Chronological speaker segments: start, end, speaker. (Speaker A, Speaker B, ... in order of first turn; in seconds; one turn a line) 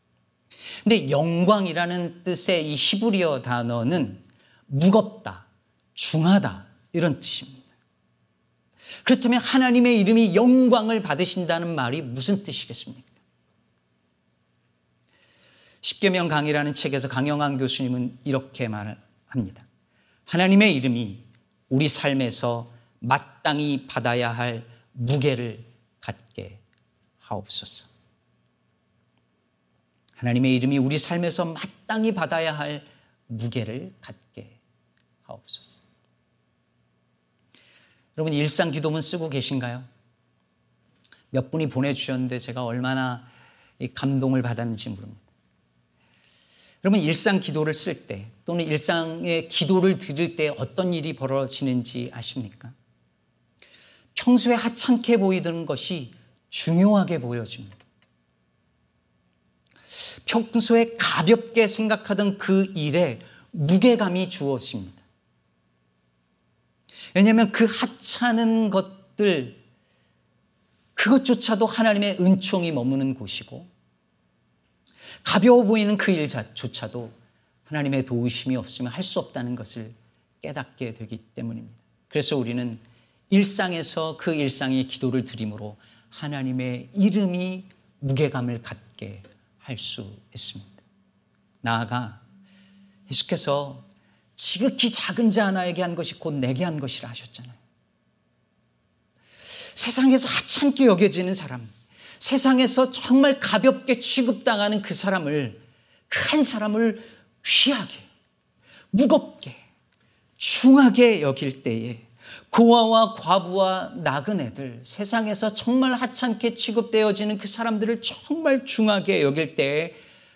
Speaker A: 0.8-7.7
Speaker A: 9.1-13.1
Speaker A: 15.8-19.6
Speaker A: 20.3-26.6
Speaker A: 27.2-27.9
Speaker A: 30.2-34.6
Speaker A: 35.3-35.8
Speaker A: 38.2-39.9
Speaker A: 41.3-43.3
Speaker A: 43.8-45.2
Speaker A: 46.8-52.7
Speaker A: 54.1-57.7
Speaker A: 60.3-65.0
Speaker A: 67.1-69.6
Speaker A: 71.0-73.7
Speaker A: 75.2-77.1
Speaker A: 77.7-90.8
Speaker A: 91.6-92.2
Speaker A: 93.1-93.8
Speaker A: 94.4-97.6
Speaker A: 99.7-108.1
Speaker A: 108.9-109.6
Speaker A: 110.4-120.0